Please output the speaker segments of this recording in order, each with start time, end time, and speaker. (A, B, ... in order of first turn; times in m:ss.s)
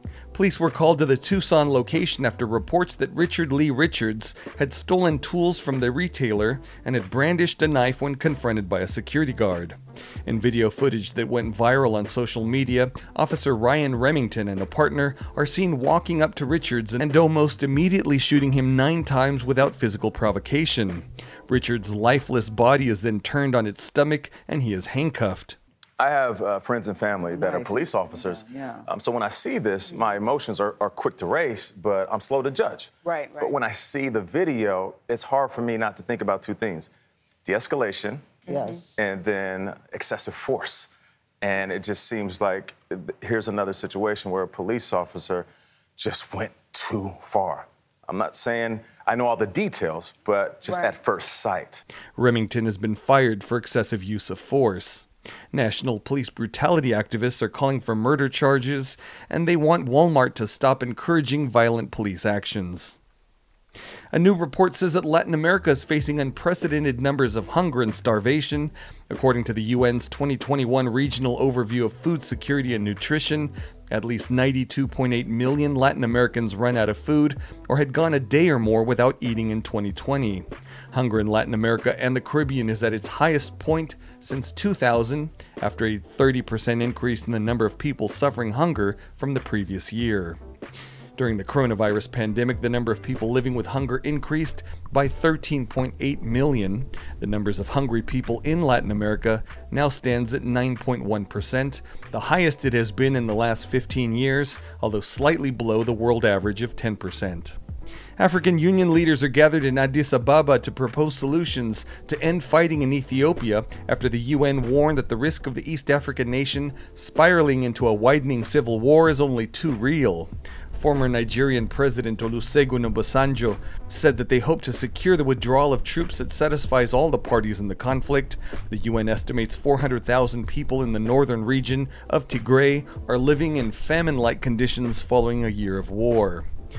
0:00.3-0:25.6 A
0:26.0-0:36.9 B
0:27.3-0:28.8 C
0:33.0-0:33.5 C
0:37.4-0:38.4 B
0:38.4-0:38.9 C
0:38.9-0:40.9 B
0:41.4-0:51.8 B
0:50.6-0:50.9 C
0:52.2-1:03.0 A
1:04.1-1:30.4 A
1:31.2-1:47.6 A
1:48.2-2:16.5 A